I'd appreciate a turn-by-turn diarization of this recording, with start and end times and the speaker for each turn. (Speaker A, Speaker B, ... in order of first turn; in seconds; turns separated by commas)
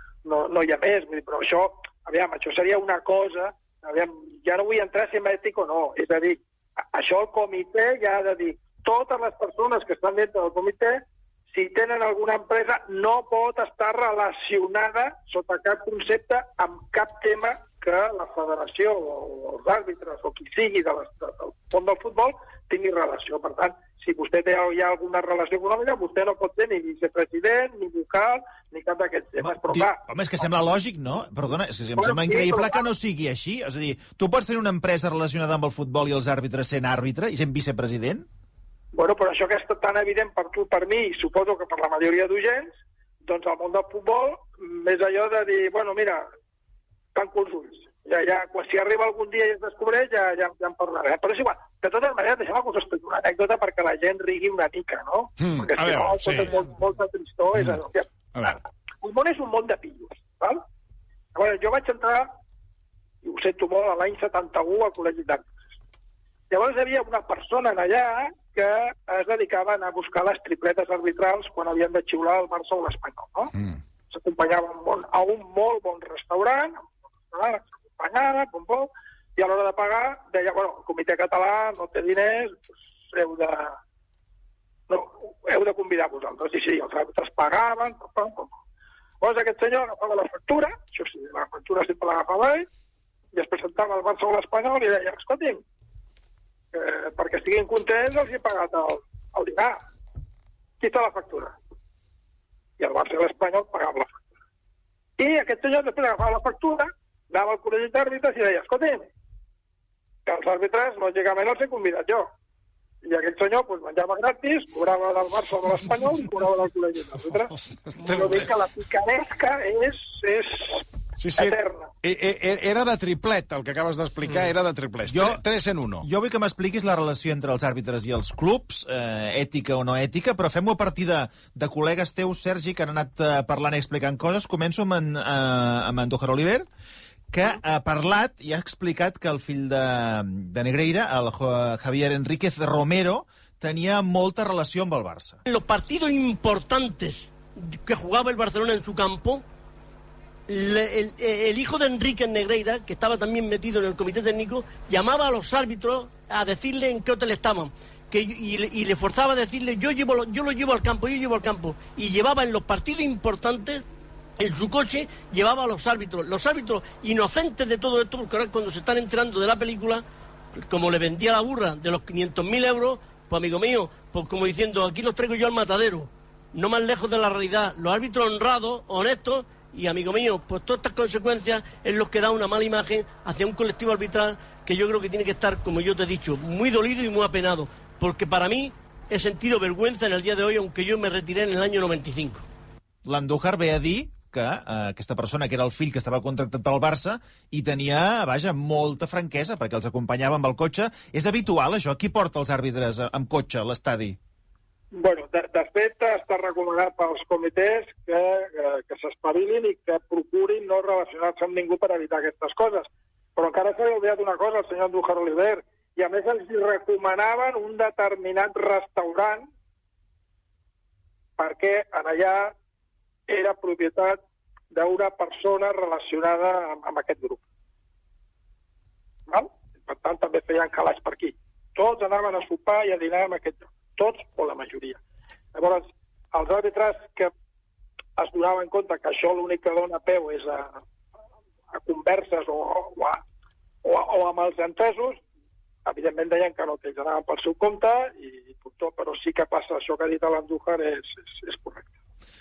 Speaker A: 0.2-30.0, Speaker B: 29.4-38.2, Speaker A: 32.0-32.9, Speaker A: 38.9-46.2, Speaker A: 47.1-60.6, Speaker C: 55.4-56.5, Speaker A: 61.3-62.3, Speaker A: 63.2-65.6, Speaker A: 66.5-73.5, Speaker A: 74.1-83.8, Speaker A: 84.9-88.6, Speaker A: 89.2-92.7, Speaker A: 93.3-95.6, Speaker A: 96.7-99.8, Speaker A: 100.8-101.5, Speaker A: 102.8-104.2, Speaker A: 105.2-109.1, Speaker A: 110.2-112.3, Speaker A: 113.0-120.8, Speaker C: 117.7-118.5, Speaker C: 121.2-126.0, Speaker A: 121.4-121.9, Speaker B: 125.1-125.4, Speaker B: 126.0-136.7, Speaker B: 137.3-145.4, Speaker D: 145.5-149.4, Speaker D: 150.5-163.8, Speaker D: 164.4-170.0, Speaker D: 170.5-192.4, Speaker B: 193.0-204.2, Speaker A: 204.9-219.5, Speaker A: 221.4-222.5, Speaker A: 223.3-224.2, Speaker A: 224.7-227.4, Speaker A: 229.3-235.0, Speaker A: 235.5-237.3, Speaker A: 238.2-240.8, Speaker A: 241.7-243.2, Speaker A: 243.8-245.2, Speaker A: 245.8-251.9